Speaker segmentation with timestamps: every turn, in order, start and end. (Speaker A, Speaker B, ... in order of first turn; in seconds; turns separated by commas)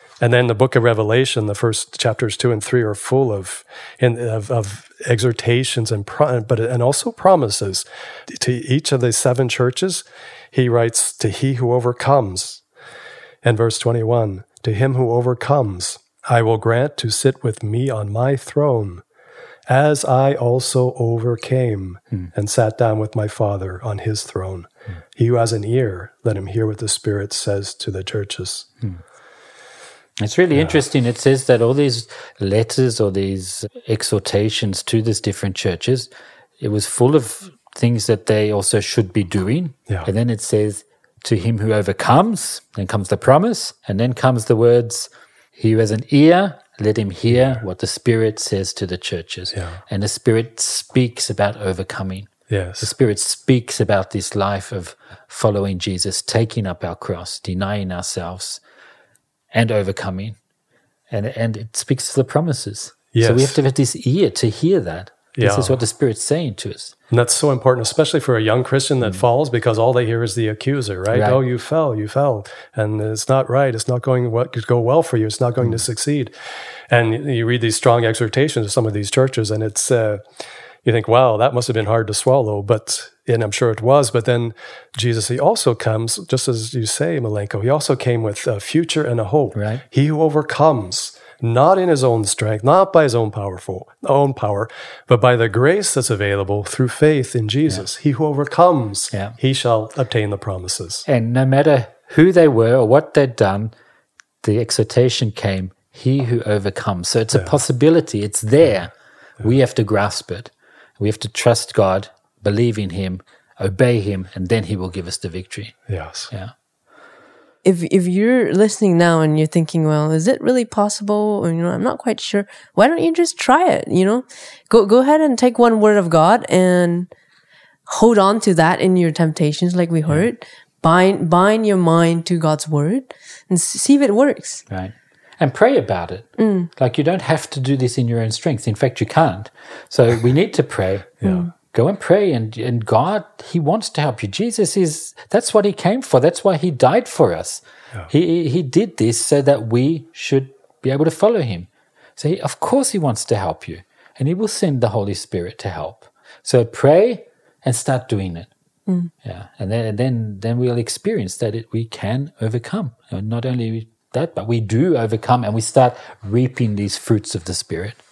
Speaker A: 0.2-12.6, Speaker A: 13.4-19.0, Speaker A: 19.7-28.7, Speaker B: 30.2-58.6, Speaker A: 30.5-30.8, Speaker A: 49.5-49.8, Speaker A: 52.5-52.9, Speaker B: 59.5-60.4, Speaker B: 61.1-66.9, Speaker A: 63.1-63.6, Speaker A: 65.4-65.8, Speaker A: 67.1-76.3, Speaker B: 71.1-71.4, Speaker A: 76.9-80.2, Speaker A: 80.8-101.1, Speaker B: 89.5-89.8, Speaker B: 101.1-103.7, Speaker B: 104.4-115.8, Speaker A: 115.9-116.3, Speaker C: 117.6-127.1, Speaker C: 127.9-134.6, Speaker B: 134.7-158.5, Speaker C: 136.4-136.7, Speaker A: 141.2-141.5, Speaker B: 159.2-168.0